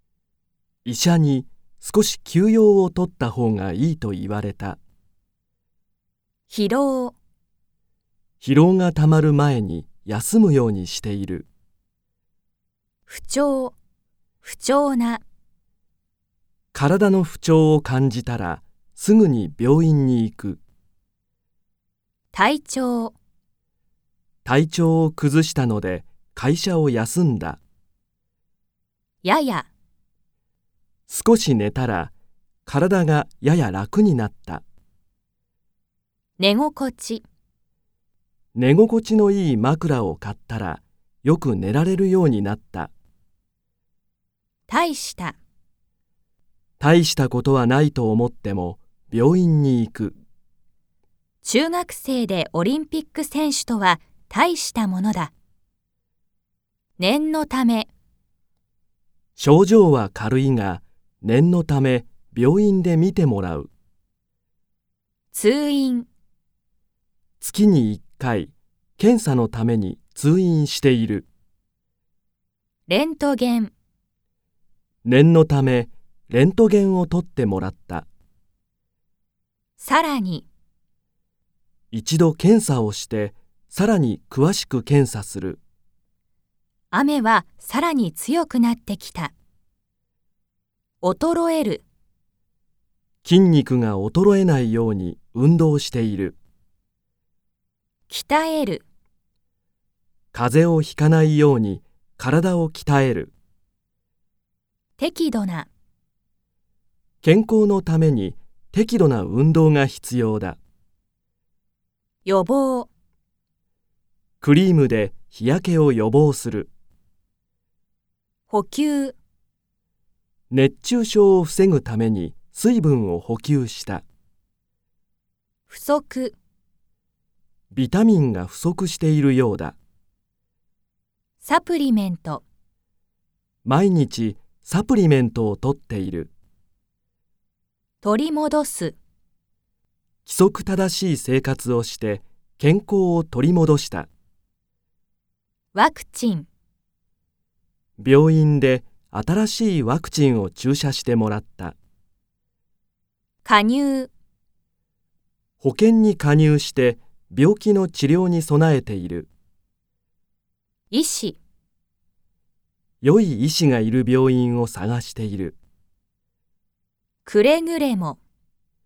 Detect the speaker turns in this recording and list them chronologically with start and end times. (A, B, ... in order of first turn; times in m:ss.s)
0:00.8-0:04.8 A
0:06.5-0:07.2 B
0:08.4-0:11.5 A
0:13.1-0:13.8 B
0:14.4-0:15.2 B
0:16.7-0:20.6 A
0:22.3-0:23.2 B
0:24.4-0:27.6 A
0:29.2-0:29.7 B
0:31.1-0:32.1 A
0:32.7-0:34.6 A
0:36.4-0:37.2 B
0:38.6-0:42.9 A
0:44.7-0:45.4 B
0:46.8-0:50.2 A
0:51.4-0:55.3 B
0:57.0-0:57.9 B
0:59.4-1:03.7 A
1:05.3-1:06.1 B
1:07.4-1:11.3 A
1:12.9-1:13.7 B
1:15.0-1:18.1 A
1:19.8-1:20.5 B
1:21.9-1:25.6 A
1:26.9-1:29.3 B
1:31.0-1:31.8 B
1:33.2-1:36.4 A
1:38.1-1:38.8 B
1:40.3-1:43.3 A
1:45.0-1:45.7 B
1:47.2-1:50.6 A
1:52.2-1:52.9 B
1:54.4-1:56.7 A
1:58.5-1:59.2 B
2:00.5-2:04.0 A
2:05.7-2:06.4 B
2:07.7-2:09.8 A
2:11.4-2:12.4 B
2:13.6-2:16.3 A
2:18.0-2:19.0 B
2:20.3-2:24.1 A
2:25.7-2:26.5 B
2:28.0-2:31.8 A
2:33.4-2:34.1 B
2:35.6-2:39.3 A
2:40.9-2:41.4 B
2:43.0-2:45.6 A
2:47.2-2:48.2 B